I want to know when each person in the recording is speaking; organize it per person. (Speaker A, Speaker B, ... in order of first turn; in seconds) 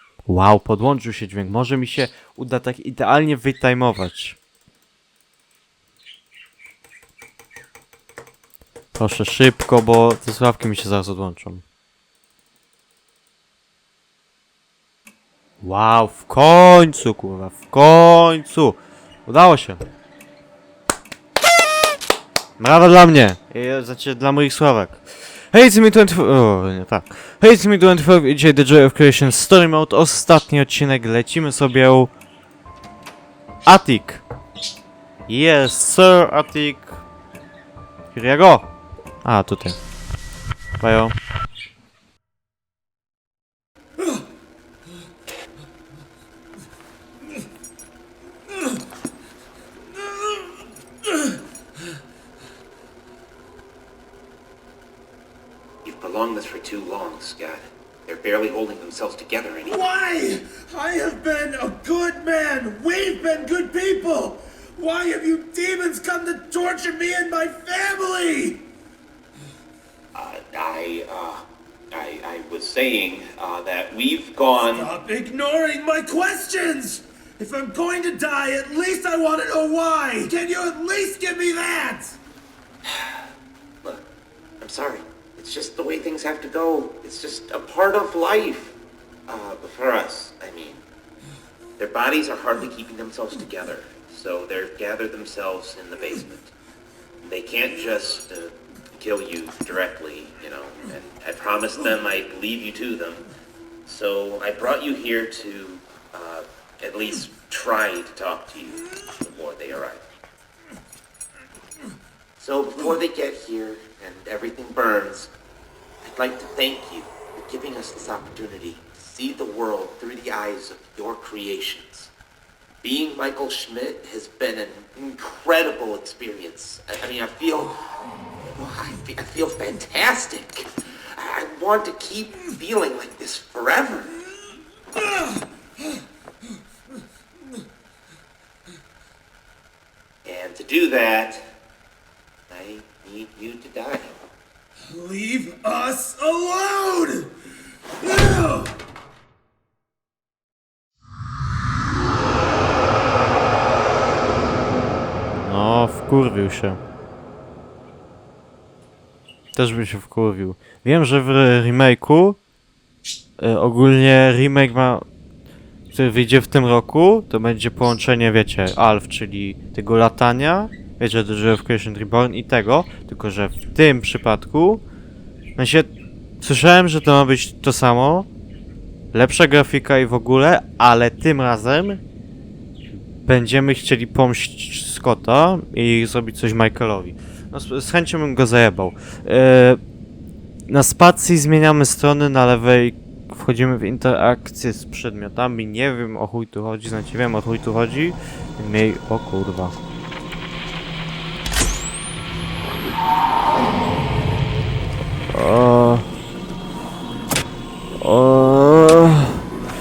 Speaker A: 0.2-4.4, 8.9-11.6, 15.6-19.8, 22.6-32.1, 33.6-34.2, 35.3-37.0, 38.1-38.7, 39.2-39.8, 40.8-41.1, 155.3-156.8, 159.5-162.4, 163.4-165.0, 165.9-174.8, 175.6-178.3, 179.1-182.0, 183.2-189.8, 190.7-199.7, 205.3-206.1, 208.0-209.4
Speaker B: 55.8-59.8, 70.1-74.9, 82.8-83.2, 83.8-84.1, 84.6-88.8, 89.3-90.8, 91.8-96.5, 97.2-103.3, 103.8-110.0, 112.4-115.3, 116.0-122.1, 122.8-127.8, 128.6-134.2, 140.2-141.5, 142.5-144.2
Speaker C: 59.8-68.7, 74.8-82.2, 144.9-147.3, 148.0-148.7